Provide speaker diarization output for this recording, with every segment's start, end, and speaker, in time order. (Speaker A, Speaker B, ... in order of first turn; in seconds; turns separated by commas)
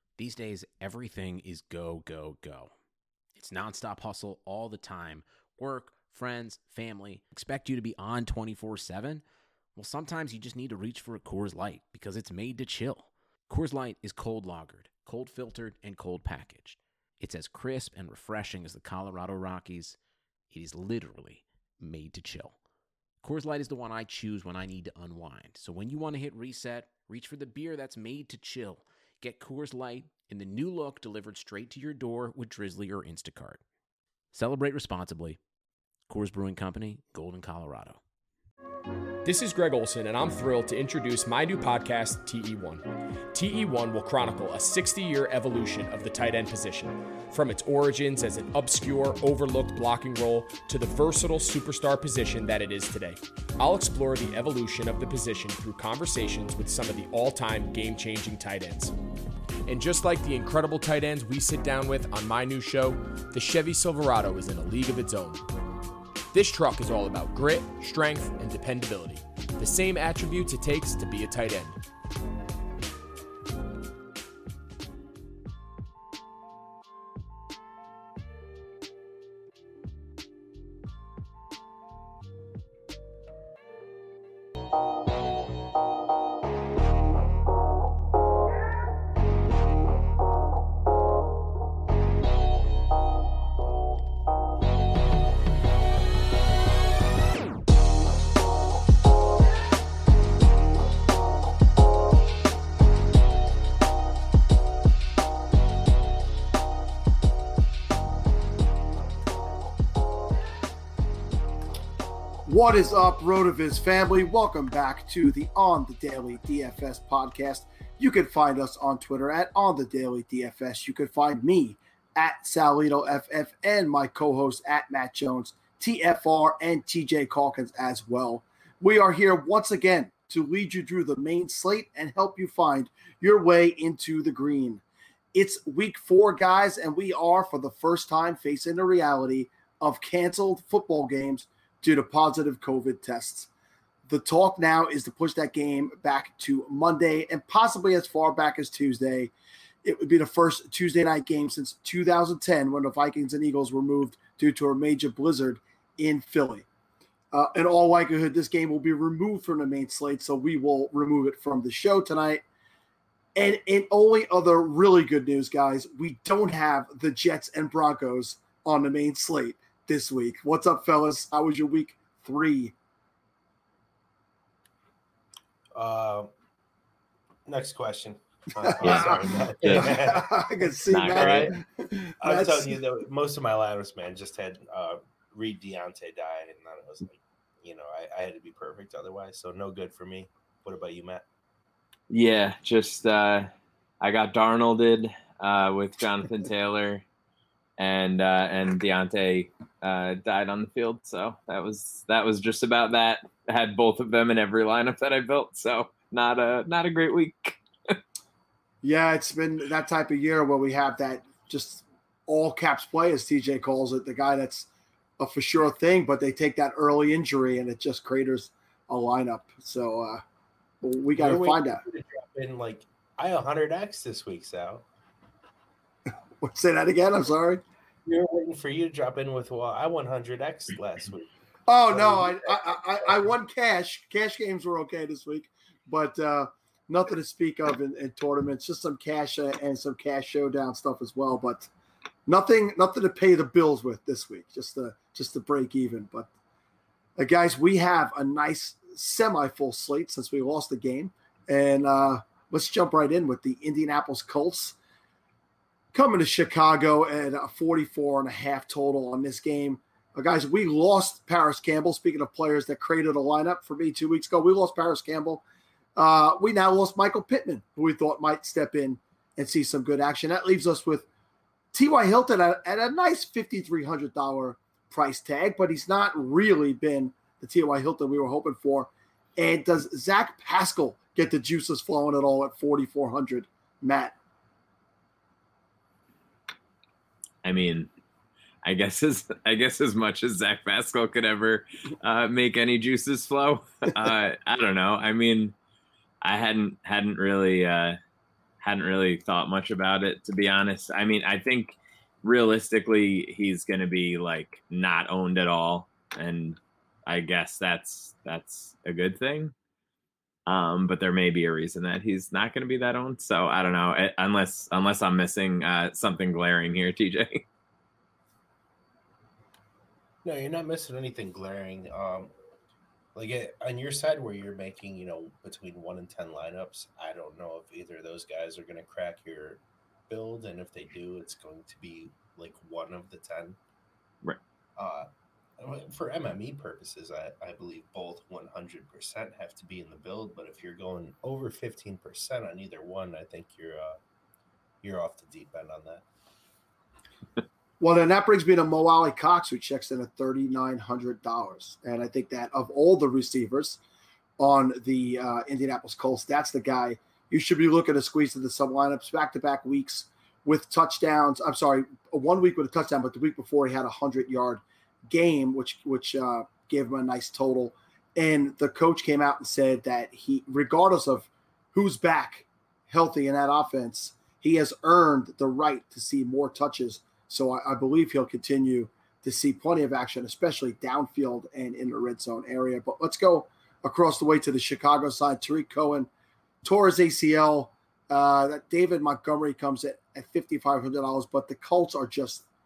Speaker A: 0.2-2.7, Speaker A: 3.4-9.2, Speaker A: 9.8-20.0, Speaker A: 20.5-22.6, Speaker A: 23.2-33.6, Speaker A: 34.3-35.4, Speaker A: 36.1-38.0, Speaker B: 39.2-58.9, Speaker B: 59.7-65.4, Speaker B: 66.3-71.8, Speaker C: 112.5-134.8, Speaker C: 135.3-143.5, Speaker C: 144.1-149.3, Speaker C: 149.8-156.7, Speaker C: 157.3-162.4, Speaker C: 163.4-172.7, Speaker D: 175.8-176.3, Speaker D: 177.5-181.6, Speaker C: 178.6-182.8, Speaker E: 178.8-180.0, Speaker E: 180.9-181.5, Speaker D: 182.2-191.2, Speaker E: 192.1-193.5, Speaker E: 194.0-197.1, Speaker E: 197.8-208.0, Speaker C: 208.8-220.2, Speaker C: 220.8-221.8, Speaker D: 221.2-224.8, Speaker C: 226.4-227.6, Speaker D: 228.1-231.3, Speaker C: 231.7-241.7, Speaker D: 231.9-233.2, Speaker C: 242.3-246.3, Speaker C: 247.2-254.8, Speaker C: 255.9-265.4, Speaker C: 266.0-271.1, Speaker C: 271.7-284.2, Speaker E: 287.4-287.9, Speaker E: 288.6-295.6, Speaker E: 296.2-298.0, Speaker E: 298.6-309.5, Speaker E: 310.5-317.4, Speaker D: 320.2-322.3, Speaker D: 323.1-333.6, Speaker D: 334.8-335.1, Speaker D: 335.6-344.0, Speaker D: 344.8-346.1, Speaker C: 347.8-353.8, Speaker C: 354.4-386.1, Speaker C: 386.6-392.5